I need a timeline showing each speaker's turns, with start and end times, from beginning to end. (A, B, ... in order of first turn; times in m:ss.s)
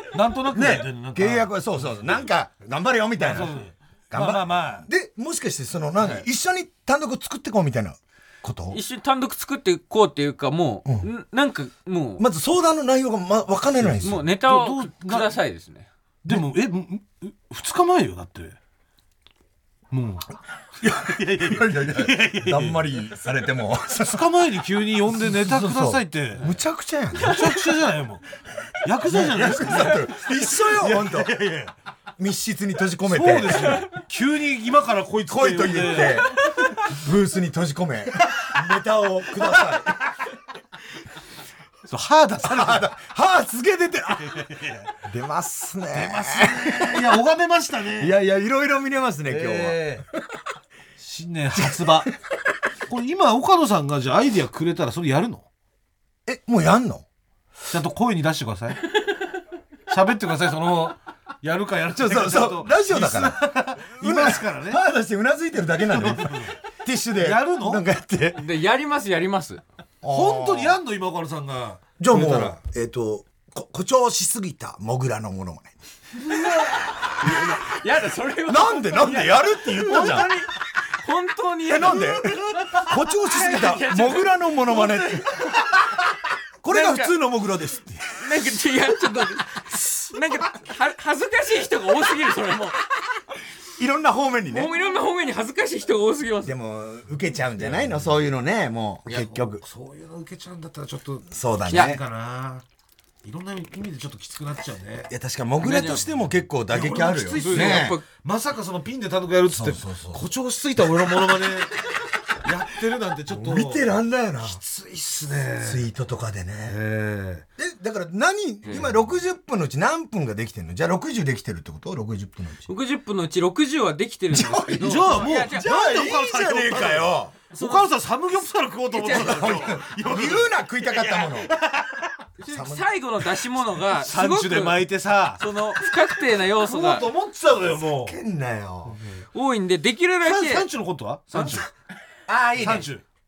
0:00.1-0:02.2 A
0:00.5-0:03.6 B
0:03.2-0:04.9 A
0:04.1-0:08.8 B
0:08.7-0:12.2 C
0:12.2-0:14.2 B
0:13.8-0:15.3 A
0:14.0-0:15.9 C
0:16.2-0:18.6 A
0:19.9-0:20.3 A
0:20.8-0:22.9 A
0:20.8-0:24.3 B
0:23.9-0:26.5 A
0:25.1-0:27.7 B
0:27.2-0:28.3 A
0:28.8-0:31.7 A
0:29.0-0:31.3 B
0:32.2-0:33.8 B
0:33.0-0:36.3 A
0:35.3-0:40.0 B
0:39.4-0:40.1 A
0:41.9-0:42.9 A
0:42.4-0:47.2 B
0:44.2-0:44.9 A
0:45.9-0:48.2 A
0:48.0-0:49.8 B
0:49.3-0:50.1 A
0:51.0-0:52.1 A
0:51.6-0:51.9 B
0:52.9-0:55.5 A
0:56.2-0:57.0 B
0:57.7-0:58.8 A
0:59.9-1:04.8 A
1:01.9-1:08.4 B
1:05.8-1:06.6 A
1:07.2-1:07.8 A
1:08.3-1:09.6 C
1:10.0-1:10.8 B
1:10.1-1:12.6 A
1:12.0-1:17.6 B
1:16.2-1:25.7 C
1:18.4-1:20.3 B
1:21.6-1:25.7 B
1:26.6-1:28.2 B
1:26.7-1:27.1 C
1:28.1-1:32.8 C
1:33.7-1:34.7 B
1:34.5-1:36.5 C
1:36.4-1:39.6 B
1:37.5-1:38.2 A
1:39.1-1:42.6 A
1:41.3-1:42.0 B
1:43.2-1:45.1 A
1:45.1-1:48.0 B
1:45.6-1:46.1 C
1:46.7-1:51.8 A
1:47.4-1:48.0 C
1:49.5-1:50.2 B
1:52.4-1:53.9 A
1:53.3-1:54.6 B
1:54.4-1:55.8 A
1:55.6-1:56.8 B
1:56.6-1:57.4 A
1:57.6-2:02.7 B
1:58.6-1:58.9 C
2:02.7-2:05.7 C
2:04.3-2:07.4 B
2:04.8-2:12.2 A
2:08.9-2:09.6 C
2:09.1-2:11.5 B
2:12.4-2:17.0 C
2:12.5-2:12.9 B
2:13.8-2:18.2 A
2:17.8-2:19.0 B
2:18.9-2:19.2 A
2:19.3-2:20.6 C
2:20.2-2:21.7 A
2:21.3-2:21.6 B
2:22.3-2:22.9 B
2:22.5-2:23.0 A